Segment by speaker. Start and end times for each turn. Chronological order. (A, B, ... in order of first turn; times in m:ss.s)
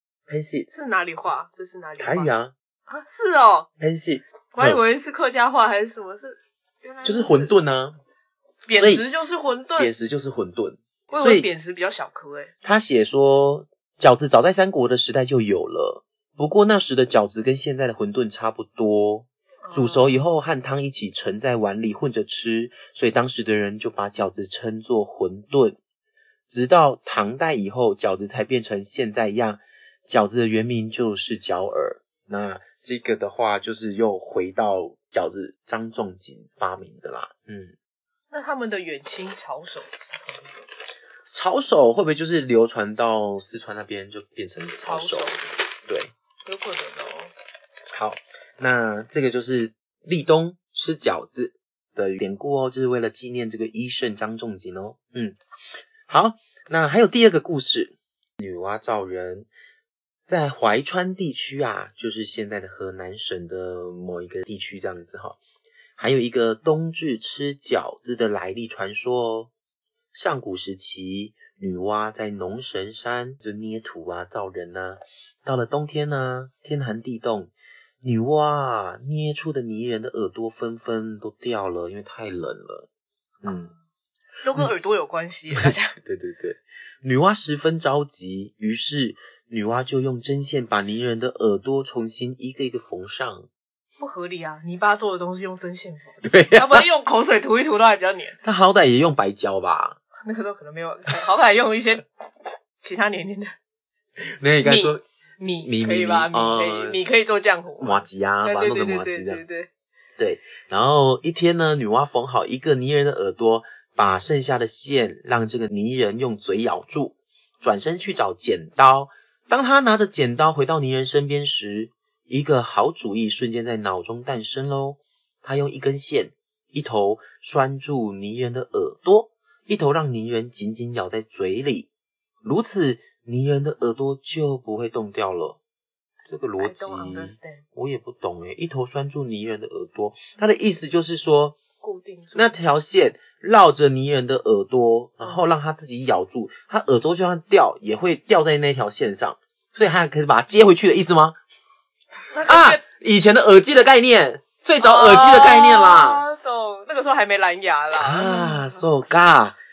0:00.3-0:00.7 A
0:00.7-0:02.3 B
0:02.0-0:02.5 A
0:02.9-0:03.7 B
0:03.8-0:04.8 A
0:04.5-0:07.5 B
0:07.0-0:08.0 A
0:08.7-0:09.9 B
0:08.8-0:09.0 A
0:09.8-0:11.5 A
0:11.1-0:12.5 B
0:12.6-0:25.8 A
0:19.6-0:20.2 B
0:26.5-0:37.8 A
0:38.3-0:40.7 B
0:41.3-0:45.3 A
0:44.8-0:45.5 B
0:45.8-0:46.1 A
0:46.4-0:47.3 B
0:47.9-0:55.4 A
0:56.1-0:59.5 A
1:00.3-1:05.4 A
1:06.0-1:09.5 A
1:10.1-1:22.9 A
1:23.4-1:23.7 A
1:23.5-1:23.7 B
1:24.4-1:25.9 B
1:25.5-1:33.5 A
1:34.0-1:38.4 B
1:36.2-1:36.8 A
1:38.4-1:40.0 A
1:40.2-1:42.0 B
1:42.8-1:43.5 B
1:44.2-1:45.0 A
1:44.6-1:49.7 B
1:45.6-1:47.0 A
1:47.8-1:49.4 A
1:50.2-2:11.9 A
2:12.4-2:15.6 A
2:16.3-2:21.6 A
2:16.6-2:17.6 B
2:21.8-2:22.5 B
2:22.3-2:31.4 A
2:32.3-2:32.8 B
2:32.4-2:36.2 A
2:34.8-2:38.8 B
2:38.0-2:39.6 A